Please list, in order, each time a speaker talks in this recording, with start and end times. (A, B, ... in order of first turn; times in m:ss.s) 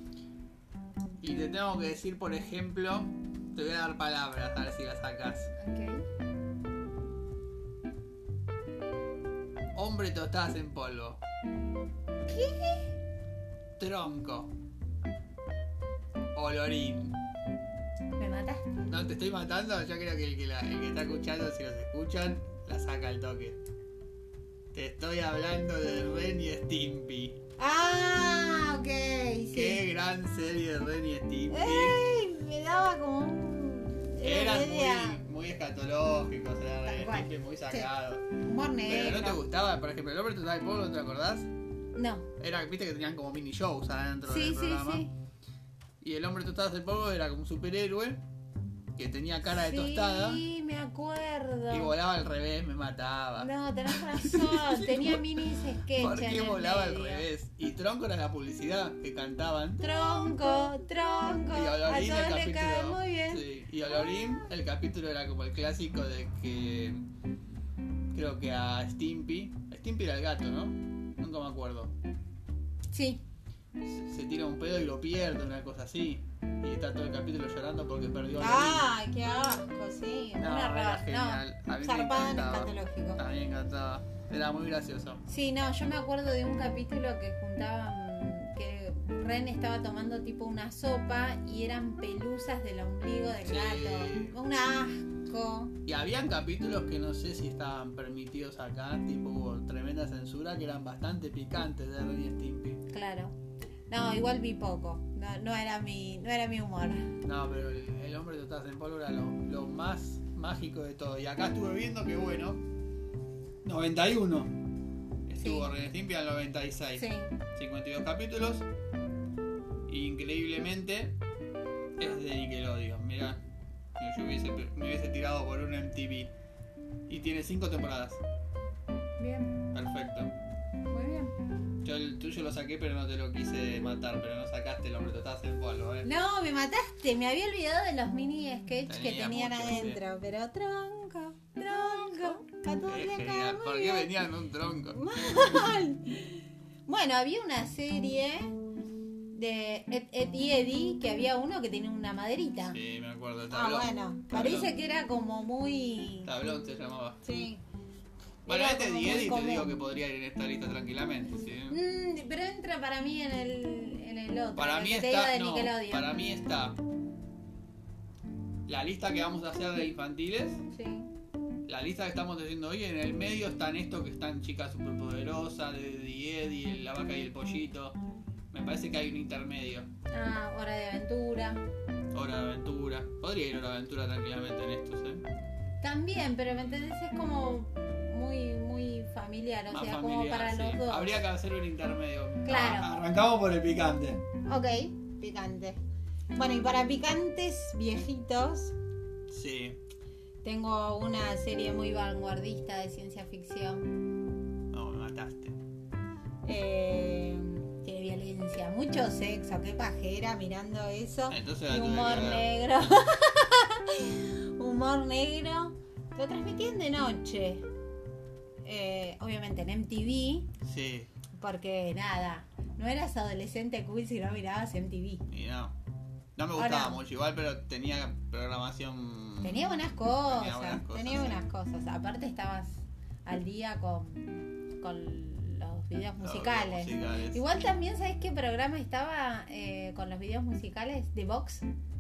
0:01.2-0:05.5 A
0:05.6-0:06.0 B
0:09.8-0:11.2 A
0:12.3-0:12.9 B
0:13.8-0:14.5 A
0:16.3-0:17.2 A
0:18.2-0:18.8 B
0:18.9-0:23.6 A
0:24.7-0:27.4 A
0:27.6-0:29.8 B
0:29.5-0:32.0 A
0:31.5-0:35.2 B
0:34.2-0:38.3 A
0:36.9-0:37.9 B
0:38.4-0:39.4 B
0:38.9-0:41.5 A
0:42.0-0:42.3 B
0:42.4-0:45.0 A
0:44.3-0:45.1 B
0:46.0-0:48.2 A
0:49.0-0:50.5 A
0:49.5-0:51.9 B
0:51.7-0:55.2 A
0:53.4-0:57.3 B
0:56.0-0:59.9 A
0:59.8-1:03.4 B
1:01.4-1:07.0 A
1:08.1-1:11.9 A
1:12.9-1:13.2 B
1:13.8-1:18.9 A
1:18.4-1:23.2 B
1:20.4-1:25.2 A
1:25.3-1:35.8 B
1:33.4-1:34.4 A
1:35.9-1:42.8 A
1:42.9-1:43.3 B
1:43.9-1:47.2 B
1:47.2-1:52.6 A
1:53.6-1:54.5 A
1:55.3-1:58.7 A
1:55.4-1:55.7 B
1:57.0-1:57.4 B
1:59.9-2:01.2 A
2:02.0-2:03.4 A
2:04.0-2:06.3 A
2:07.1-2:08.2 A
2:09.2-2:09.6 B
2:09.7-2:10.3 A
2:10.9-2:11.4 B
2:11.8-2:16.1 A
2:16.0-2:24.1 B
2:18.9-2:20.0 A
2:21.8-2:25.7 A
2:24.9-2:28.5 B
2:29.3-2:32.8 B
2:32.6-2:34.7 A
2:33.5-2:36.3 B
2:36.2-2:37.2 A
2:37.2-2:37.6 B
2:38.5-2:39.7 B
2:38.5-2:41.8 A
2:41.7-2:46.1 B
2:44.6-2:46.8 A
2:48.7-2:50.6 A
2:50.7-2:51.1 B
2:51.7-2:58.0 A
2:58.5-2:59.9 A
3:00.1-3:01.6 B
3:02.1-3:05.2 A
3:05.8-3:11.2 B
3:09.7-3:14.2 A
3:12.4-3:12.9 B
3:14.5-3:15.8 B
3:16.4-3:18.8 B
3:19.3-3:19.8 A
3:20.4-3:24.0 B
3:24.7-3:25.6 A
3:26.4-3:37.7 B
3:31.3-3:32.5 A
3:38.6-3:40.5 B
3:40.6-3:41.1 A
3:41.4-3:45.2 B
3:45.3-3:45.8 A
3:46.4-3:51.4 A
3:46.6-3:47.0 B
3:49.4-4:01.7 B
3:56.2-3:57.4 A